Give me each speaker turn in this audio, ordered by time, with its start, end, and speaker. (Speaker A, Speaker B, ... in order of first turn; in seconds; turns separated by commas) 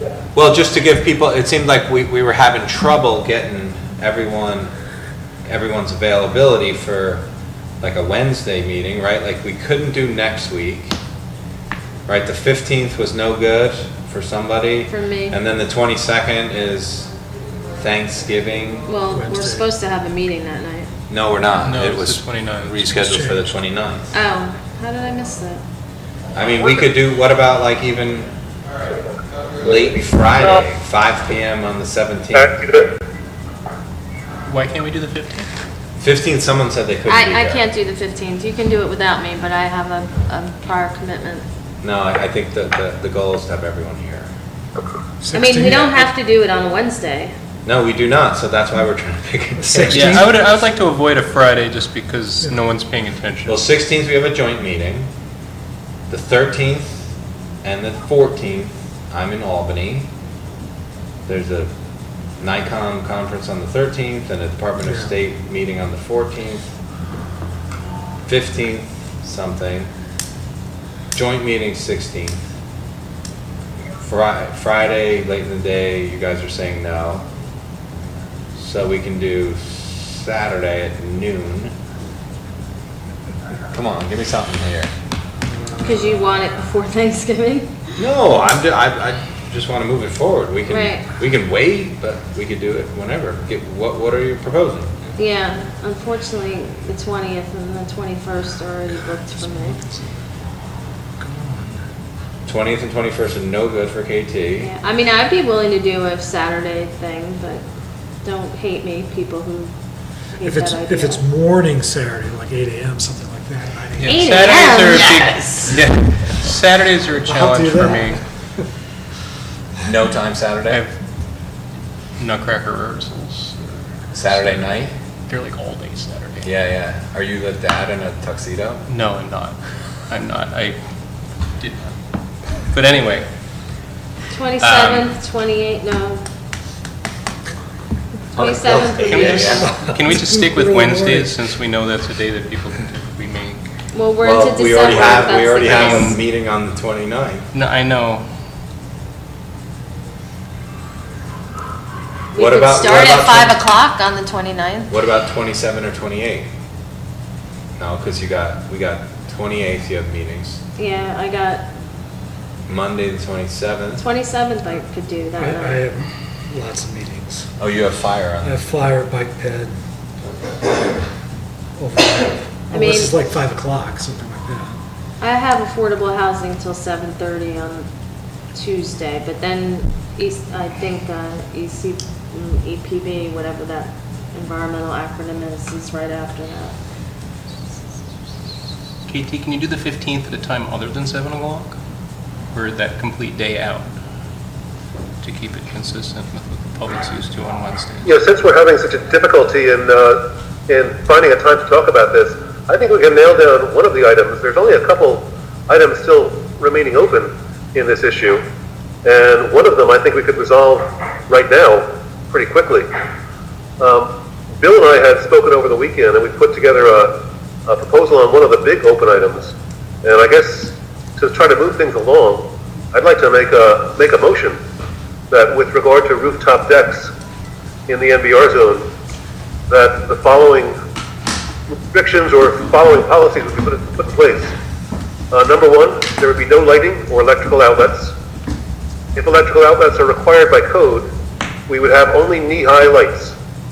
Speaker A: 0.3-4.7, Speaker A: 5.5-7.2, Speaker A: 7.8-10.9, Speaker A: 12.1-17.1, Speaker B: 14.9-15.4, Speaker A: 17.8-18.9, Speaker B: 18.9-20.9, Speaker C: 19.1-19.7, Speaker A: 21.1-24.1, Speaker D: 21.6-23.0, Speaker C: 22.9-23.6, Speaker B: 24.1-25.6, Speaker A: 26.4-28.3, Speaker A: 29.6-32.5, Speaker E: 32.3-33.0, Speaker D: 34.5-35.5, Speaker A: 36.0-37.6, Speaker B: 37.1-41.5, Speaker A: 41.8-44.3, Speaker C: 45.2-45.9, Speaker B: 45.3-47.3, Speaker A: 47.6-50.2, Speaker C: 49.6-50.3, Speaker D: 49.9-53.6, Speaker A: 53.5-55.1, Speaker A: 56.1-57.1, Speaker A: 57.6-60.1, Speaker A: 61.3-61.7, Speaker A: 62.4-66.7, Speaker C: 64.8-65.1, Speaker A: 68.2-69.9, Speaker A: 71.1-72.4, Speaker A: 74.0-77.2, Speaker A: 78.6-81.7, Speaker A: 83.7-84.9, Speaker B: 85.8-87.9, Speaker A: 88.0-94.9, Speaker B: 90.7-91.0, Speaker B: 95.2-99.8, Speaker C: 99.4-100.2, Speaker C: 101.2-101.7, Speaker A: 102.5-104.7, Speaker B: 104.6-107.6, Speaker B: 108.2-109.7, Speaker B: 110.4-111.2, Speaker C: 110.4-114.4, Speaker D: 114.0-118.2, Speaker B: 114.1-115.2, Speaker C: 117.2-118.2, Speaker A: 119.8-120.8, Speaker D: 122.2-124.7, Speaker A: 124.1-124.9, Speaker D: 125.3-126.5, Speaker A: 126.4-128.8, Speaker D: 128.9-129.6, Speaker D: 130.1-130.8, Speaker D: 132.7-133.3, Speaker B: 134.3-136.2, Speaker D: 134.6-135.1, Speaker B: 138.3-139.7, Speaker A: 138.3-139.8, Speaker D: 139.0-143.6, Speaker C: 139.7-141.3, Speaker B: 143.9-146.2, Speaker A: 144.2-147.5, Speaker D: 145.7-146.2, Speaker D: 147.5-148.2, Speaker A: 152.3-153.6, Speaker B: 152.3-154.9, Speaker A: 154.9-156.5, Speaker A: 157.8-160.6, Speaker B: 160.8-161.7, Speaker A: 162.7-164.0, Speaker B: 164.0-165.9, Speaker C: 165.4-167.5, Speaker A: 167.6-168.6, Speaker C: 168.4-169.8, Speaker C: 171.8-174.8, Speaker B: 172.7-173.1, Speaker B: 175.2-177.9, Speaker B: 178.5-186.8, Speaker D: 189.1-191.8, Speaker D: 192.5-193.9, Speaker D: 195.2-198.1, Speaker E: 198.1-208.4, Speaker E: 209.1-212.9, Speaker E: 213.8-217.1, Speaker E: 217.7-224.6, Speaker E: 225.3-227.1, Speaker E: 227.9-228.9, Speaker E: 229.7-230.8, Speaker E: 231.7-234.5, Speaker E: 235.3-238.1, Speaker E: 239.2-241.1, Speaker E: 241.7-243.4